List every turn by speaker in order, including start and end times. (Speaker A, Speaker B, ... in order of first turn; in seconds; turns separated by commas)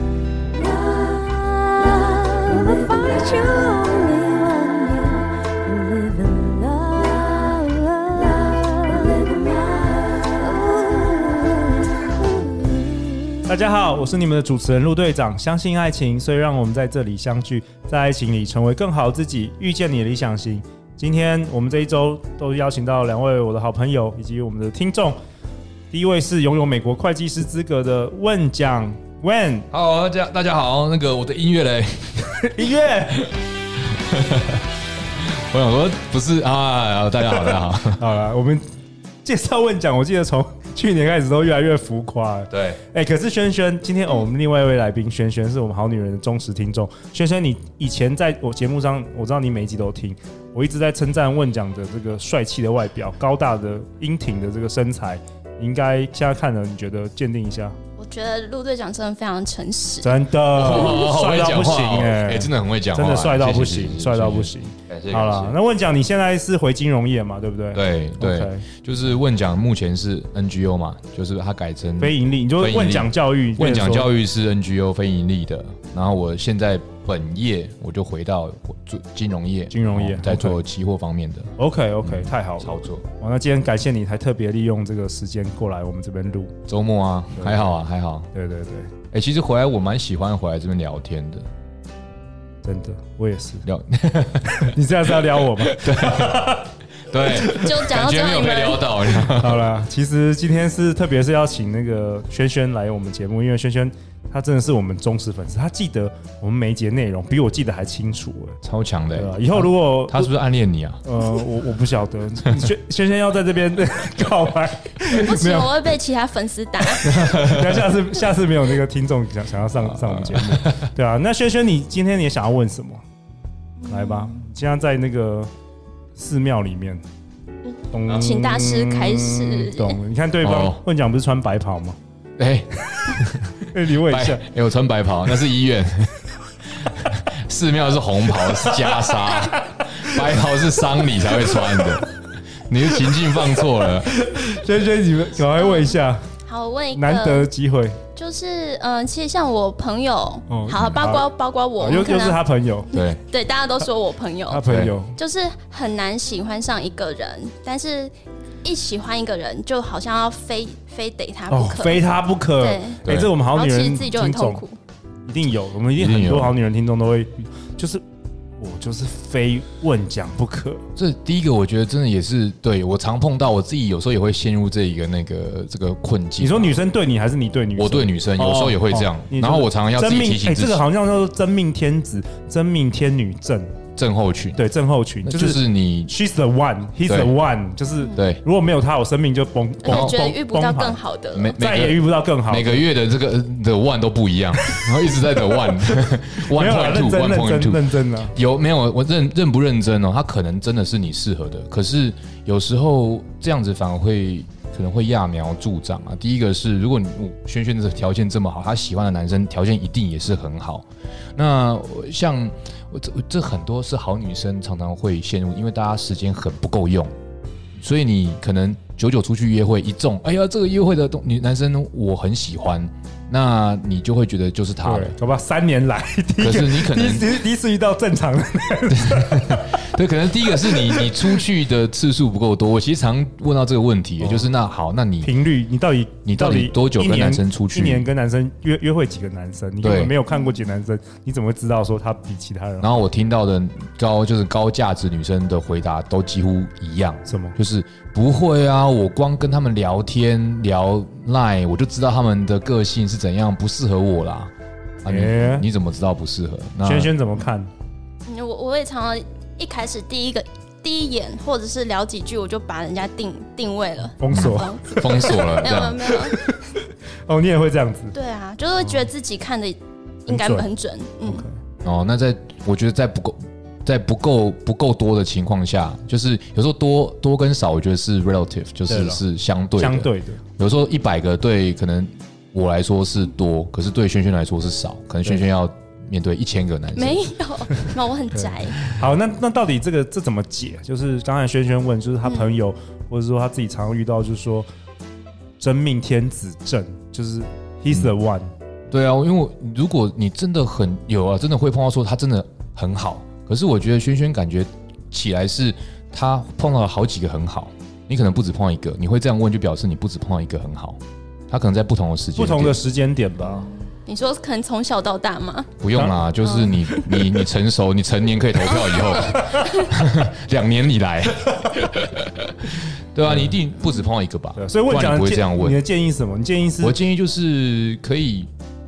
Speaker A: 1.0-11.6, Speaker B: 13.4-25.2, Speaker B: 25.9-29.7, Speaker C: 29.7-33.3, Speaker B: 32.5-33.2, Speaker C: 33.9-38.0, Speaker B: 38.0-38.6, Speaker B: 39.2-57.8, Speaker C: 42.5-42.8, Speaker A: 58.0-60.2, Speaker B: 60.0-68.7, Speaker C: 60.5-65.6, Speaker C: 67.7-81.5, Speaker B: 72.0-74.1, Speaker B: 79.7-80.6, Speaker B: 81.6-86.5, Speaker C: 82.0-83.0, Speaker C: 86.7-88.3, Speaker B: 87.3-87.7, Speaker B: 88.3-88.9, Speaker C: 89.1-91.5, Speaker B: 92.6-93.7, Speaker C: 93.7-94.8, Speaker B: 94.6-96.7, Speaker C: 95.6-99.7, Speaker A: 97.3-98.9, Speaker B: 99.1-108.6, Speaker C: 108.6-111.2, Speaker B: 109.1-110.3, Speaker B: 111.0-115.8, Speaker A: 115.1-117.1, Speaker B: 117.0-123.0, Speaker C: 117.0-117.9, Speaker C: 119.8-120.9, Speaker A: 123.8-124.3, Speaker B: 123.8-125.5, Speaker B: 126.2-127.0, Speaker A: 127.7-130.0, Speaker B: 127.9-132.0, Speaker C: 130.4-130.8, Speaker C: 132.4-136.2, Speaker B: 133.7-134.4, Speaker C: 136.8-144.1, Speaker B: 138.4-140.2, Speaker B: 141.0-141.9, Speaker B: 143.0-146.2, Speaker A: 145.6-147.5, Speaker B: 146.9-148.0, Speaker A: 148.2-152.4, Speaker B: 150.5-151.3, Speaker B: 151.8-152.9, Speaker A: 152.9-162.1, Speaker C: 152.9-153.2, Speaker B: 154.5-155.2, Speaker C: 154.7-154.9, Speaker B: 161.5-164.6, Speaker A: 162.6-164.8, Speaker C: 163.1-163.3, Speaker B: 165.3-168.0, Speaker C: 166.0-166.5, Speaker B: 168.6-170.8, Speaker C: 171.0-176.8, Speaker B: 176.4-183.8, Speaker C: 177.8-180.8, Speaker C: 184.0-184.6, Speaker B: 184.6-191.0, Speaker C: 185.2-186.1, Speaker C: 187.1-187.3, Speaker C: 188.2-188.4, Speaker A: 189.8-191.6, Speaker C: 189.9-190.2, Speaker C: 191.3-217.1, Speaker B: 191.5-192.9, Speaker B: 196.5-198.3, Speaker C: 217.8-225.1, Speaker B: 224.8-229.8, Speaker C: 226.4-227.3, Speaker C: 228.9-235.3, Speaker B: 230.6-231.4, Speaker B: 234.2-234.5, Speaker B: 235.2-243.0, Speaker C: 236.2-238.1, Speaker C: 239.8-240.2, Speaker C: 242.8-254.5, Speaker B: 247.2-247.6, Speaker C: 255.0-257.1, Speaker B: 255.1-255.7, Speaker B: 256.8-257.7, Speaker A: 258.3-266.4, Speaker B: 264.2-265.4, Speaker C: 264.3-266.1, Speaker B: 266.1-268.1, Speaker A: 268.1-271.4, Speaker B: 270.3-270.7, Speaker B: 271.2-271.6, Speaker C: 271.8-287.3, Speaker B: 278.9-279.2, Speaker B: 279.8-280.4, Speaker A: 286.9-288.8, Speaker B: 288.3-294.7, Speaker B: 295.6-298.5, Speaker C: 298.9-312.8, Speaker B: 312.4-313.7, Speaker A: 313.5-315.7, Speaker C: 315.8-325.8, Speaker A: 316.4-317.3, Speaker A: 318.7-319.9, Speaker B: 323.2-323.6, Speaker B: 324.6-327.0, Speaker C: 326.8-328.5